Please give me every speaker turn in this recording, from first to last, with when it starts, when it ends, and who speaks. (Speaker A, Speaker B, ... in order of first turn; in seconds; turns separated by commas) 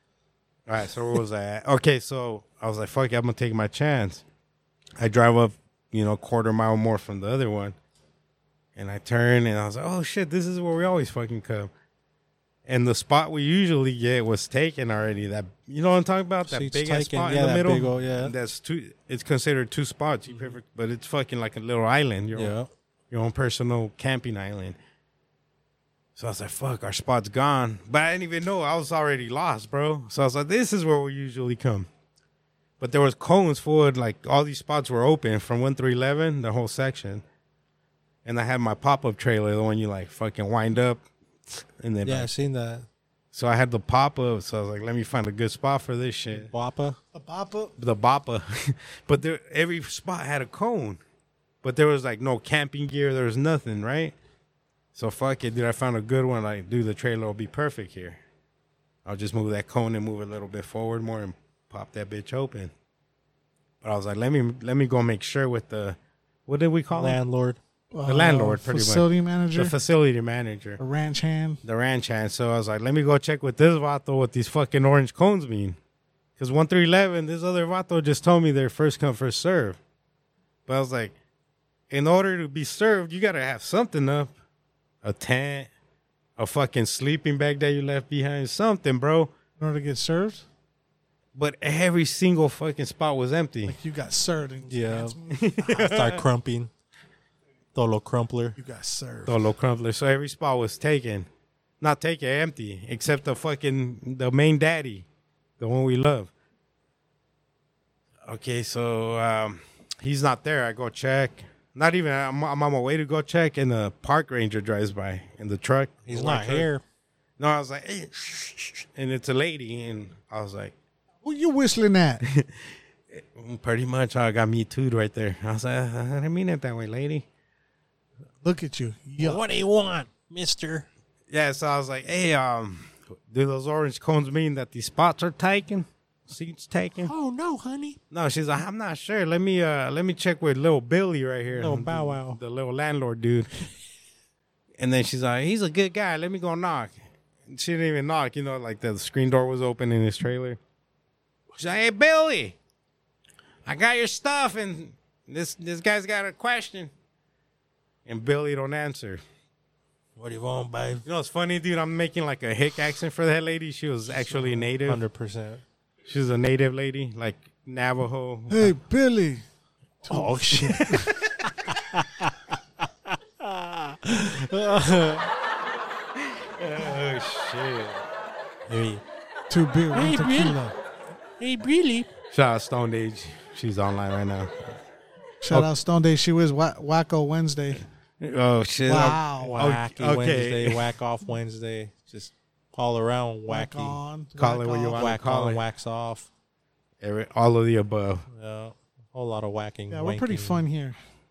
Speaker A: 0.7-4.2, Speaker A: 5.0-7.7, Speaker A: 8.8-11.7, Speaker A: 12.7-22.5, Speaker B: 16.4-18.3, Speaker B: 20.3-20.5, Speaker B: 22.3-22.7, Speaker A: 23.1-24.8, Speaker A: 26.1-31.9, Speaker A: 32.8-37.2, Speaker A: 38.2-42.3, Speaker B: 42.0-42.9, Speaker A: 43.3-46.5, Speaker B: 46.3-47.0, Speaker C: 47.1-47.7, Speaker A: 47.8-51.0, Speaker A: 51.6-54.1, Speaker A: 54.9-58.2, Speaker A: 59.0-62.7, Speaker A: 63.8-67.2, Speaker B: 66.9-67.6, Speaker C: 67.9-69.7, Speaker A: 68.0-70.8, Speaker C: 70.8-71.6, Speaker A: 71.6-75.8, Speaker A: 76.4-79.8, Speaker A: 80.7-81.1, Speaker A: 81.9-84.3, Speaker A: 85.0-85.7, Speaker A: 86.4-89.3, Speaker C: 89.6-90.4, Speaker A: 91.3-93.7, Speaker C: 93.7-95.7, Speaker B: 94.7-96.7, Speaker A: 95.3-96.2, Speaker B: 97.7-98.6, Speaker C: 98.6-99.4, Speaker A: 99.2-101.3, Speaker A: 101.8-105.0, Speaker A: 105.6-106.3, Speaker A: 108.2-116.7, Speaker B: 116.0-116.8, Speaker A: 117.4-120.7, Speaker C: 121.2-122.2, Speaker A: 122.2-127.2, Speaker C: 128.4-129.4, Speaker B: 129.2-130.9, Speaker A: 131.3-137.1, Speaker B: 137.0-138.0, Speaker A: 138.1-143.5, Speaker B: 141.5-142.4, Speaker A: 144.8-146.9, Speaker A: 147.5-150.6, Speaker A: 151.6-152.6, Speaker A: 153.7-156.9, Speaker A: 158.1-159.2, Speaker B: 160.2-161.1, Speaker A: 161.1-165.0, Speaker B: 164.2-165.6, Speaker A: 166.1-168.7, Speaker C: 168.5-169.4, Speaker C: 170.0-171.1, Speaker B: 170.1-175.3, Speaker A: 176.6-178.0, Speaker B: 178.7-179.0, Speaker C: 179.5-180.7, Speaker B: 179.9-180.6, Speaker B: 181.4-182.1, Speaker A: 182.3-184.8, Speaker C: 185.4-187.8, Speaker A: 188.2-190.9, Speaker C: 188.8-189.6, Speaker B: 189.4-194.0, Speaker C: 193.5-195.2, Speaker A: 194.4-195.6, Speaker B: 194.9-196.3, Speaker A: 197.0-198.2, Speaker B: 198.3-200.6, Speaker C: 199.9-201.0